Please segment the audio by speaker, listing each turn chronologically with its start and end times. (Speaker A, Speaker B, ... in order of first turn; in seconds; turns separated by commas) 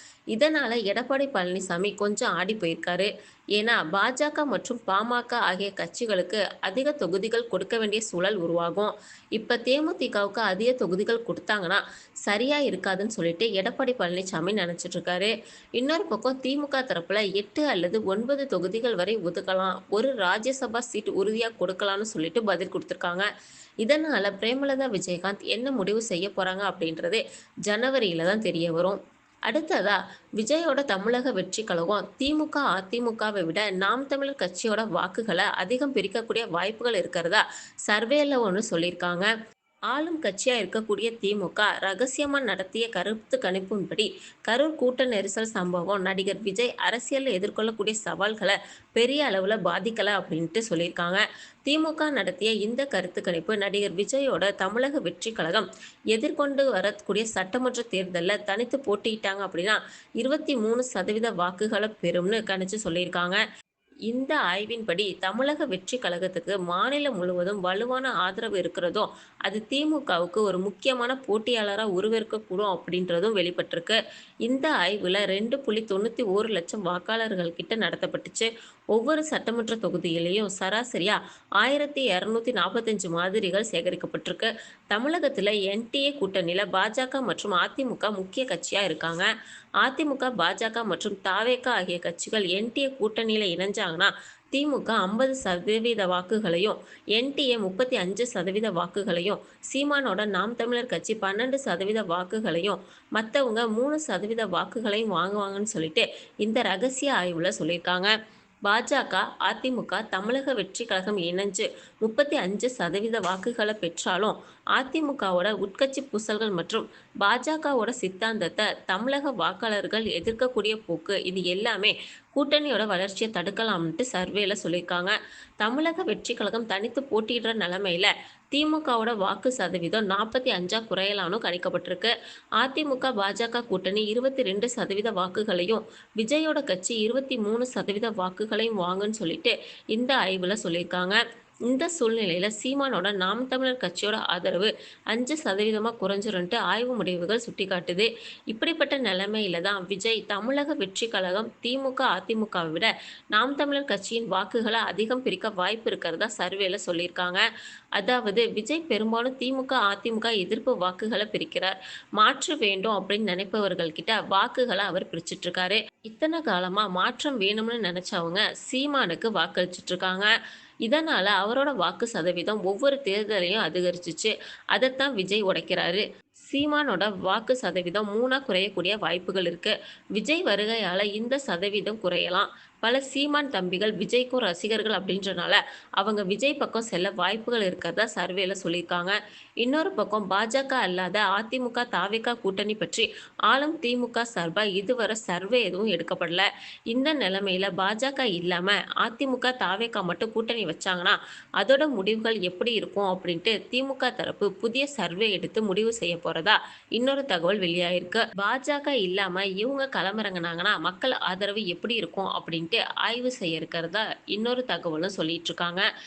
Speaker A: 0.3-23.2, Speaker A: 23.8-39.3, Speaker A: 39.9-63.4, Speaker A: 64.1-89.2, Speaker A: 89.8-108.1, Speaker A: 108.7-141.2, Speaker A: 141.7-157.4, Speaker A: 158.0-170.3, Speaker A: 170.8-215.8